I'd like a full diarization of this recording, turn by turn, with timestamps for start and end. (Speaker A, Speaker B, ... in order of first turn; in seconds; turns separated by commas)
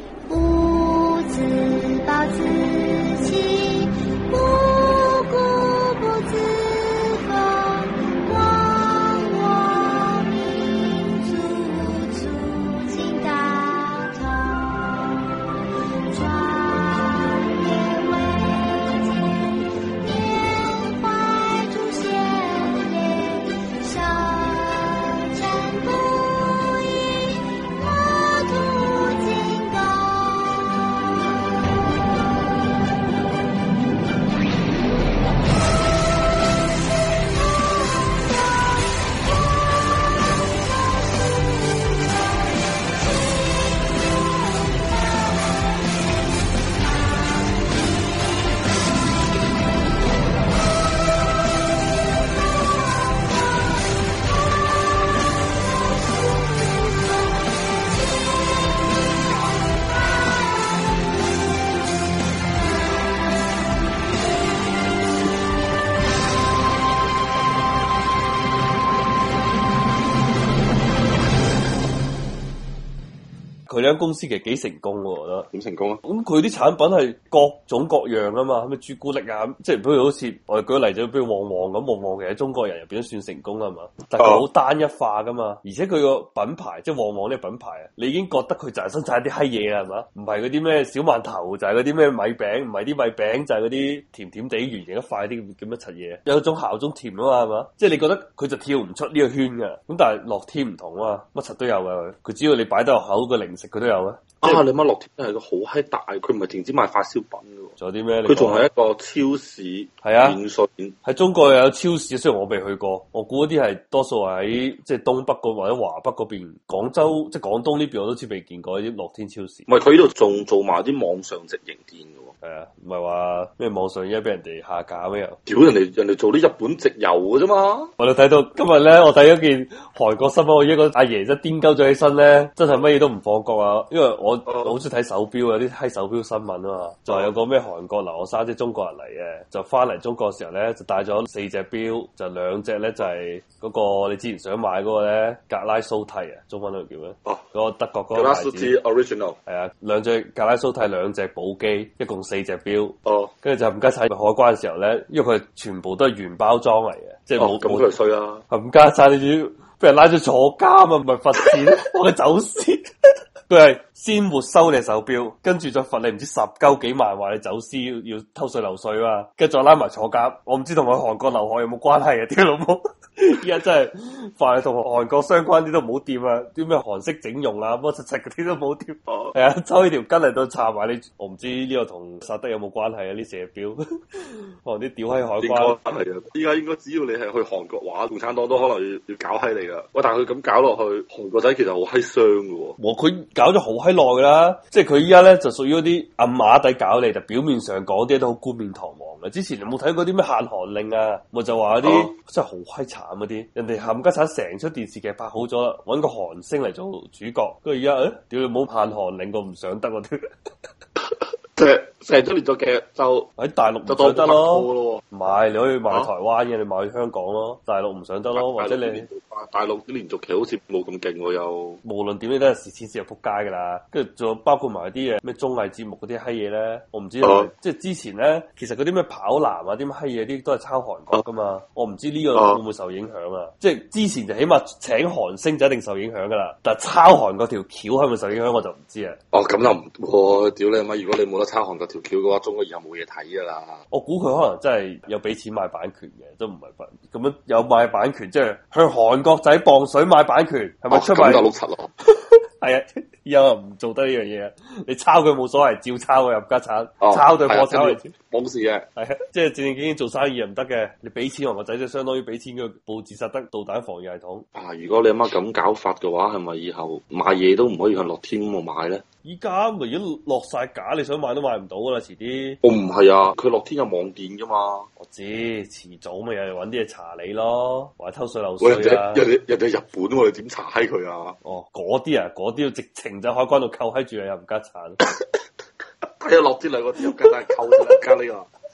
Speaker A: 0.3-15.4, Speaker A: 16.1-32.7, Speaker A: 44.6-45.4, Speaker B: 73.7-75.5, Speaker C: 75.5-76.0, Speaker B: 76.0-104.6, Speaker C: 84.2-84.5, Speaker C: 104.4-111.0, Speaker B: 107.8-108.7, Speaker B: 110.0-110.4, Speaker B: 111.0-119.7, Speaker C: 119.7-122.3, Speaker B: 122.4-125.4, Speaker C: 125.5-127.9, Speaker B: 128.0-148.8, Speaker C: 134.5-134.8, Speaker C: 148.1-149.4, Speaker B: 149.5-157.9, Speaker C: 153.1-153.3, Speaker C: 157.4-158.4, Speaker B: 158.5-162.8, Speaker B: 163.5-185.8, Speaker C: 179.1-179.4, Speaker C: 185.4-192.8, Speaker B: 192.8-210.2, Speaker C: 201.8-202.1, Speaker C: 211.6-213.3, Speaker B: 213.4-219.1, Speaker C: 213.9-215.0, Speaker C: 218.3-221.8, Speaker B: 221.8-239.2, Speaker C: 227.2-227.5, Speaker C: 232.3-232.6, Speaker C: 239.3-243.8, Speaker B: 243.9-251.5, Speaker C: 250.9-251.9, Speaker B: 252.6-258.1, Speaker C: 257.0-258.9, Speaker B: 258.9-264.4, Speaker C: 264.6-269.0, Speaker B: 269.2-272.6, Speaker C: 272.6-274.9, Speaker B: 275.0-279.3, Speaker C: 278.6-281.4, Speaker B: 281.4-285.0, Speaker C: 286.0-288.5